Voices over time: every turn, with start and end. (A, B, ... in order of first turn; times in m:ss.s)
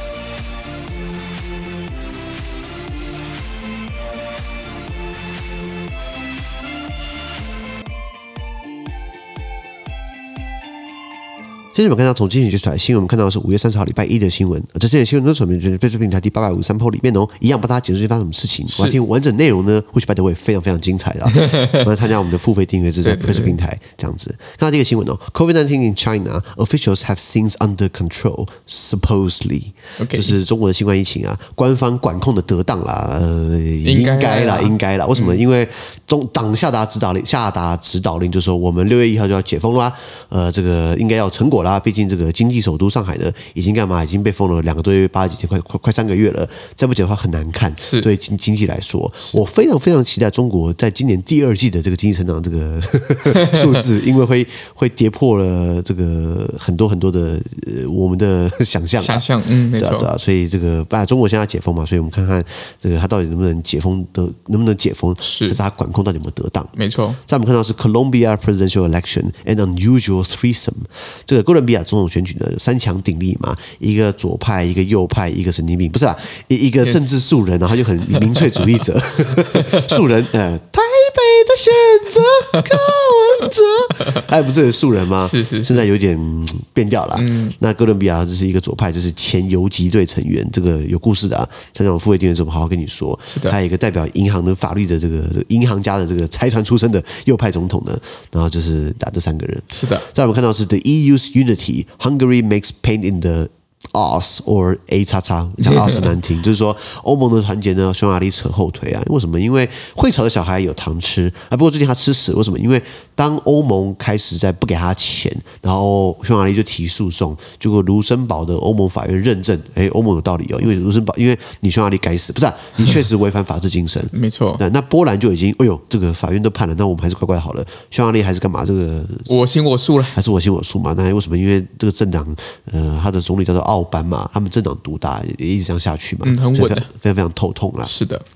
0:11.7-1:06.7 A
0:18.7-0:19.0 B
0:21.3-0:21.8 B
0:23.0-0:23.6 B
0:30.0-0:30.4 B
0:33.8-0:35.4 B
0:47.8-0:48.1 B
0:59.0-1:00.1 B
1:05.2-1:05.6 B
1:06.8-1:07.2 B
1:07.2-2:09.4 A
1:18.1-1:18.6 B
1:19.4-1:20.0 B
1:22.5-1:23.0 B
1:25.2-1:25.8 B
1:27.1-1:27.6 B
1:33.3-1:33.6 B
1:39.7-1:40.0 B
2:04.1-2:04.6 B
2:09.3-2:10.2 B
2:10.1-2:17.9 A
2:16.2-2:16.9 B
2:17.8-2:18.2 B